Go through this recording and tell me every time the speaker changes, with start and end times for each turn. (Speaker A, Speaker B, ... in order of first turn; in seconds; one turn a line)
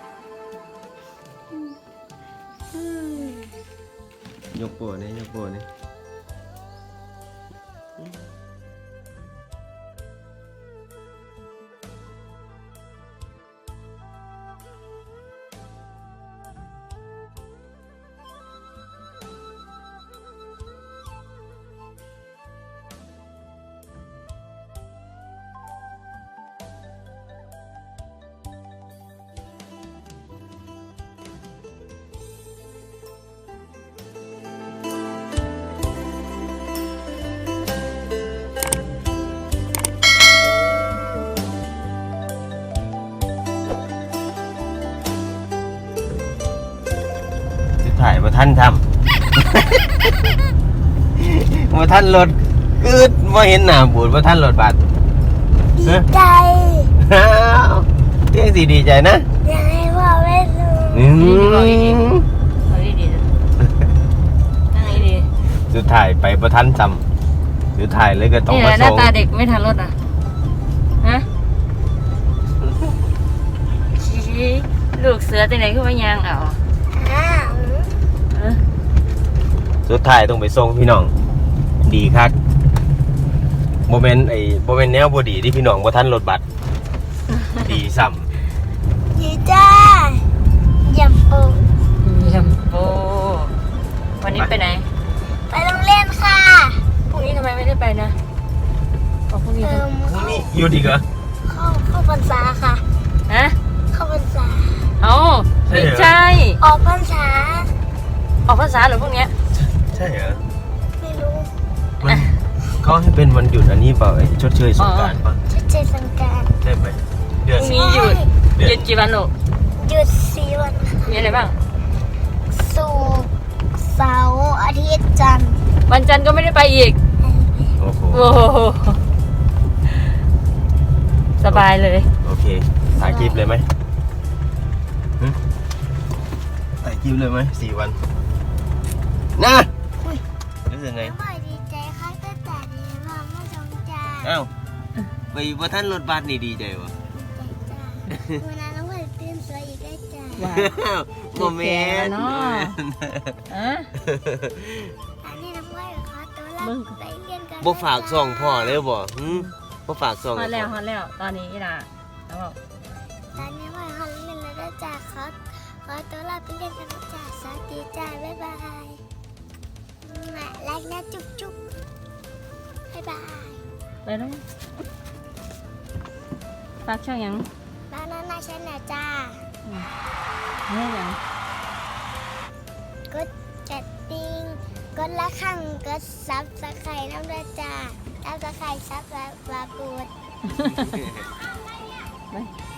Speaker A: 4.5-5.7
Speaker A: 47.8-48.8
Speaker A: 49.4-50.1
Speaker A: 51.1-54.8
Speaker B: 55.7-56.9
Speaker A: 57.0-59.2
Speaker B: 59.4-61.1
Speaker A: 60.9-62.2
Speaker C: 61.1-62.0
Speaker C: 62.6-63.2
Speaker C: 64.7-65.3
Speaker A: 65.5-67.0
Speaker A: 67.7-69.1
Speaker C: 68.5-69.9
Speaker C: 74.0-76.6
Speaker B: 76.9-77.9
Speaker C: 78.3-78.6
Speaker A: 79.8-81.1
Speaker A: 81.8-82.3
Speaker A: 83.9-86.4
Speaker A: 87.5-88.3
Speaker B: 89.1-90.2
Speaker B: 90.8-91.7
Speaker C: 92.0-93.5
Speaker C: 94.2-94.8
Speaker A: 94.3-94.6
Speaker B: 95.5-96.9
Speaker C: 97.1-98.2
Speaker C: 99.3-99.8
Speaker B: 99.6-100.5
Speaker A: 100.0-101.0
Speaker B: 101.4-102.8
Speaker C: 103.3-103.5
Speaker B: 103.9-105.0
Speaker C: 105.0-106.6
Speaker A: 105.7-106.2
Speaker B: 106.6-107.7
Speaker C: 108.5-109.3
Speaker A: 109.6-110.4
Speaker B: 111.0-111.5
Speaker A: 112.0-115.4
Speaker C: 114.8-115.1
Speaker B: 115.5-116.5
Speaker A: 116.6-117.7
Speaker C: 117.5-119.3
Speaker B: 117.6-118.3
Speaker A: 118.5-118.8
Speaker B: 119.8-121.3
Speaker C: 121.0-121.5
Speaker B: 122.5-125.6
Speaker C: 125.9-127.0
Speaker B: 127.2-127.8
Speaker A: 127.8-128.3
Speaker C: 128.1-129.0
Speaker C: 131.4-132.1
Speaker A: 132.2-133.7
Speaker B: 132.9-133.5
Speaker A: 136.8-138.0
Speaker A: 139.3-141.1
Speaker B: 141.0-144.3
Speaker A: 144.2-144.5
Speaker A: 145.3-146.9
Speaker B: 147.1-150.5
Speaker A: 148.1-148.4
Speaker C: 150.4-150.8
Speaker A: 150.4-153.4
Speaker C: 151.3-152.8
Speaker C: 153.5-153.9
Speaker A: 153.9-154.9
Speaker B: 155.2-158.8
Speaker C: 156.6-156.9
Speaker A: 157.6-160.8
Speaker C: 160.3-162.6
Speaker B: 163.3-169.0
Speaker B: 170.0-171.6
Speaker B: 172.9-173.7
Speaker C: 174.1-174.4
Speaker C: 176.8-177.5
Speaker B: 177.9-179.5
Speaker C: 180.7-181.2
Speaker B: 183.1-190.1
Speaker C: 190.5-191.0
Speaker A: 190.8-191.2